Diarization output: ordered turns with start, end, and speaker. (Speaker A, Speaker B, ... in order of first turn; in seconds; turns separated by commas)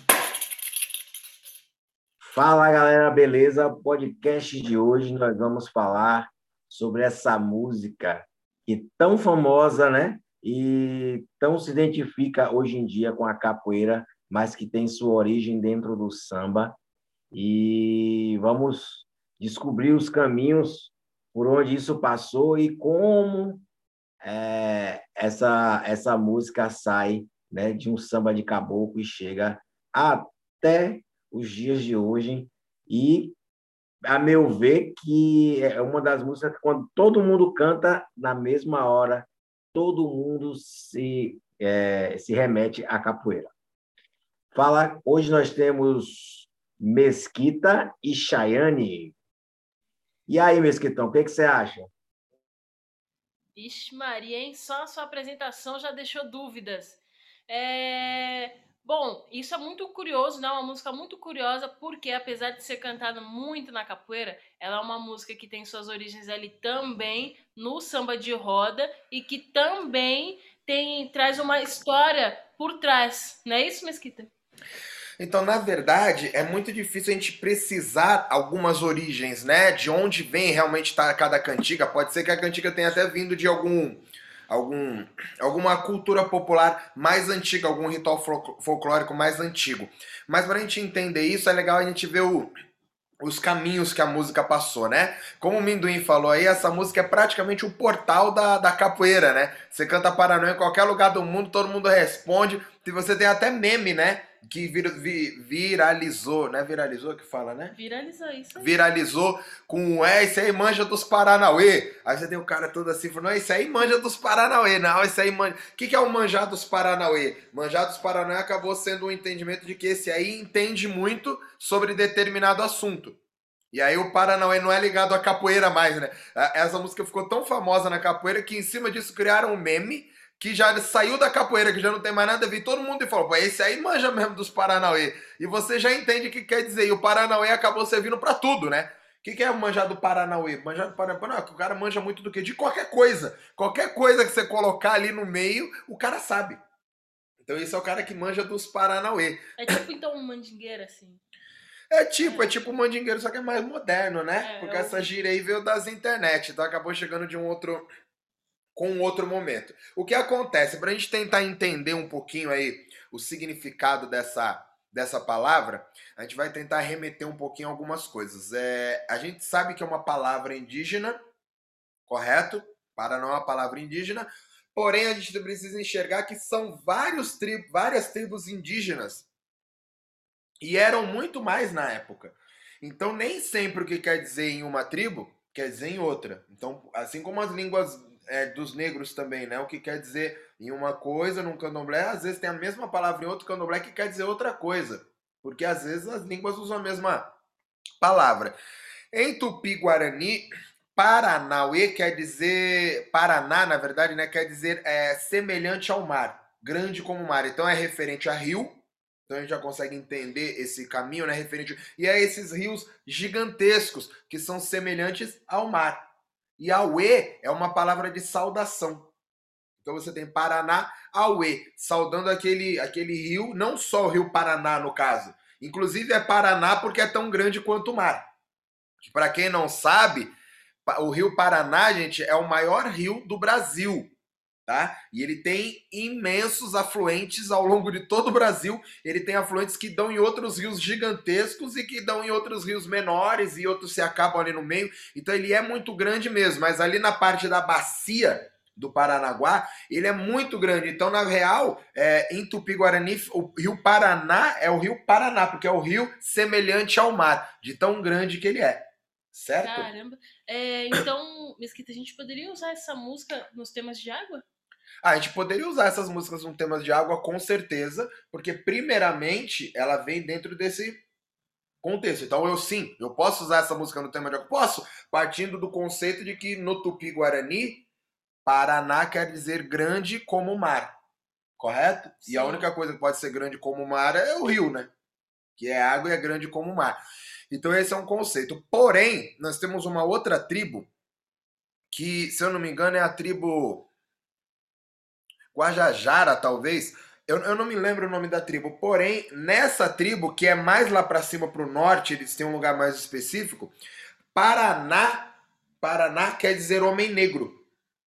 Speaker A: 2.2-16.8, Speaker A: 17.3-23.6, Speaker A: 24.2-33.4, Speaker A: 34.1-43.5, Speaker A: 44.5-49.1, Speaker A: 50.3-51.9, Speaker B: 53.6-74.3, Speaker C: 75.2-92.5, Speaker C: 93.2-107.8, Speaker B: 107.8-108.8, Speaker C: 108.6-123.2, Speaker C: 123.7-146.6, Speaker C: 147.4-149.6, Speaker B: 149.6-151.2, Speaker C: 151.9-157.8, Speaker B: 152.2-152.5, Speaker B: 154.4-155.1, Speaker C: 158.8-171.2, Speaker C: 172.1-179.3, Speaker C: 180.6-197.2, Speaker C: 198.0-198.6, Speaker C: 199.1-216.0, Speaker C: 216.6-219.1, Speaker C: 219.8-228.2, Speaker C: 229.0-230.3, Speaker C: 230.9-234.1, Speaker C: 234.7-259.9, Speaker B: 259.6-264.4, Speaker C: 265.0-271.0, Speaker C: 271.8-277.9, Speaker C: 278.4-280.9, Speaker C: 281.6-284.9, Speaker B: 282.2-282.7, Speaker C: 285.6-287.0, Speaker C: 287.5-290.9, Speaker C: 291.9-293.9, Speaker C: 295.5-303.7, Speaker C: 304.3-307.6